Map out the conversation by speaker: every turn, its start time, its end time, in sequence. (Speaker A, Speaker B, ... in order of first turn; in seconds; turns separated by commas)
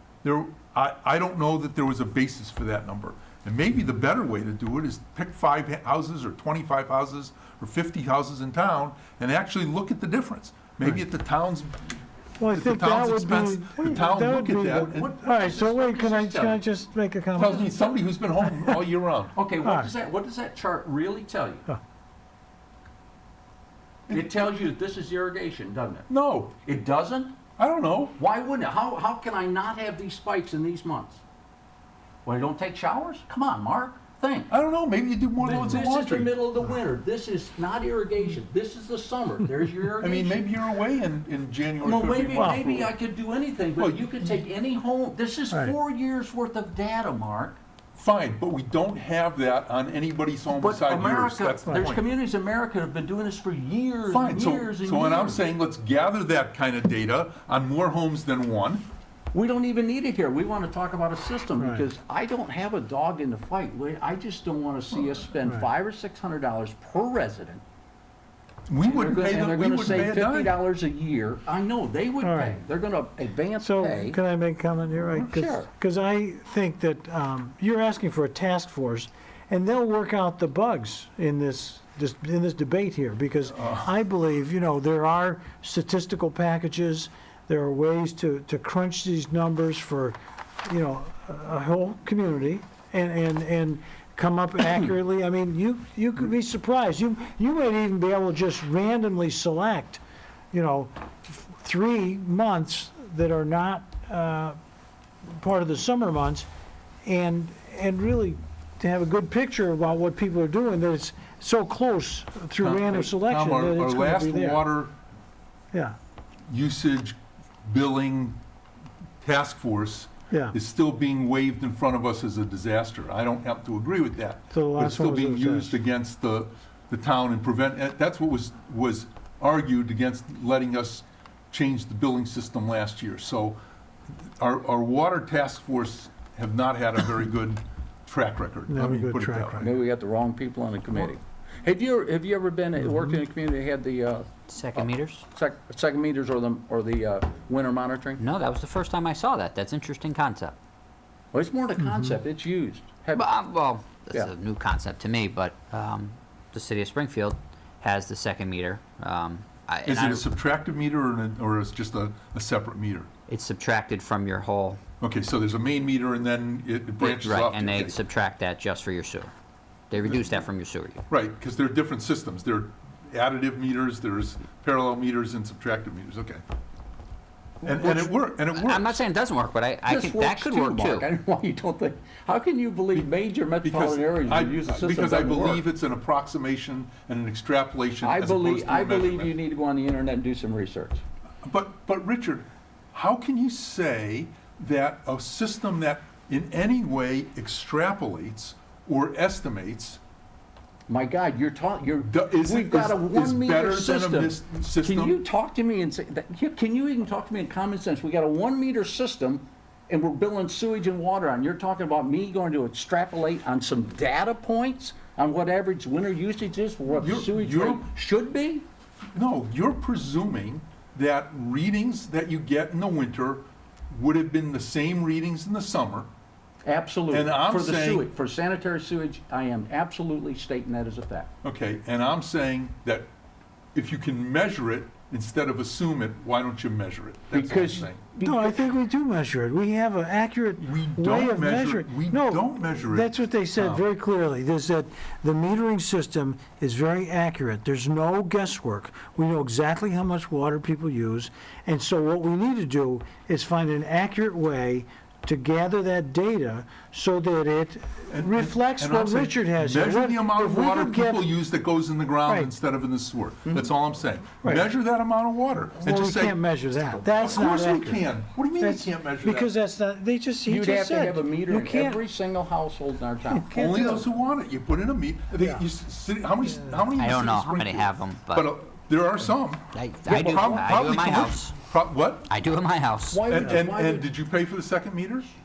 Speaker A: 0.2-11.8, Speaker B: 12.4-17.7, Speaker A: 12.5-15.1, Speaker C: 14.8-16.7, Speaker C: 17.4-17.8, Speaker A: 17.4-19.4, Speaker B: 18.4-18.8, Speaker C: 19.4-21.6, Speaker B: 19.6-19.9, Speaker C: 24.1-26.1, Speaker A: 26.1-26.5, Speaker C: 26.6-27.4, Speaker A: 27.6-28.2, Speaker C: 28.2-31.2, Speaker C: 32.2-34.5, Speaker A: 34.5-36.3, Speaker C: 35.4-40.5, Speaker A: 40.0-42.9, Speaker C: 41.8-47.6, Speaker B: 42.4-42.7, Speaker A: 43.8-44.2, Speaker B: 45.5-45.8, Speaker A: 48.0-52.1, Speaker C: 50.6-55.4, Speaker A: 54.1-58.8, Speaker C: 59.3-67.6, Speaker B: 61.6-61.9, Speaker A: 68.7-70.6, Speaker C: 68.8-74.2, Speaker B: 72.2-72.6, Speaker B: 73.6-100.0, Speaker C: 75.3-75.7, Speaker A: 83.5-83.9, Speaker C: 94.6-94.9, Speaker B: 100.5-104.6, Speaker B: 105.3-106.5, Speaker B: 107.0-114.7, Speaker A: 112.6-114.9, Speaker A: 116.5-118.4, Speaker A: 119.2-133.6, Speaker B: 120.3-120.6, Speaker B: 124.5-125.8, Speaker A: 134.4-139.7, Speaker B: 138.7-139.7, Speaker C: 139.6-148.2, Speaker B: 142.8-143.2, Speaker D: 144.5-145.2, Speaker D: 148.2-150.6, Speaker C: 151.3-153.3, Speaker B: 151.8-152.2, Speaker D: 153.1-160.3, Speaker A: 159.9-163.1, Speaker D: 163.3-164.8, Speaker A: 165.0-168.0, Speaker D: 167.0-169.3, Speaker D: 169.9-171.0, Speaker A: 171.1-176.4, Speaker A: 177.6-179.0, Speaker C: 177.7-178.0, Speaker D: 178.5-181.1, Speaker C: 179.9-185.6, Speaker A: 183.6-189.3, Speaker C: 188.0-191.0, Speaker A: 191.4-200.0, Speaker C: 200.9-218.7, Speaker A: 202.1-205.2, Speaker A: 216.9-217.9, Speaker A: 219.2-226.1, Speaker C: 226.7-231.3, Speaker A: 227.1-228.1, Speaker A: 231.4-233.1, Speaker A: 233.8-238.1, Speaker C: 237.3-238.6, Speaker B: 238.2-261.3, Speaker A: 240.6-243.8, Speaker A: 258.1-266.4, Speaker B: 262.2-262.5, Speaker B: 264.4-264.7, Speaker B: 265.8-268.0, Speaker A: 267.0-269.5, Speaker B: 268.6-272.0, Speaker C: 270.5-273.5, Speaker B: 273.2-274.1, Speaker A: 273.5-282.3, Speaker D: 277.0-278.5, Speaker D: 279.7-281.6, Speaker C: 280.1-280.8, Speaker D: 282.3-283.2, Speaker C: 283.1-284.1, Speaker A: 283.3-285.3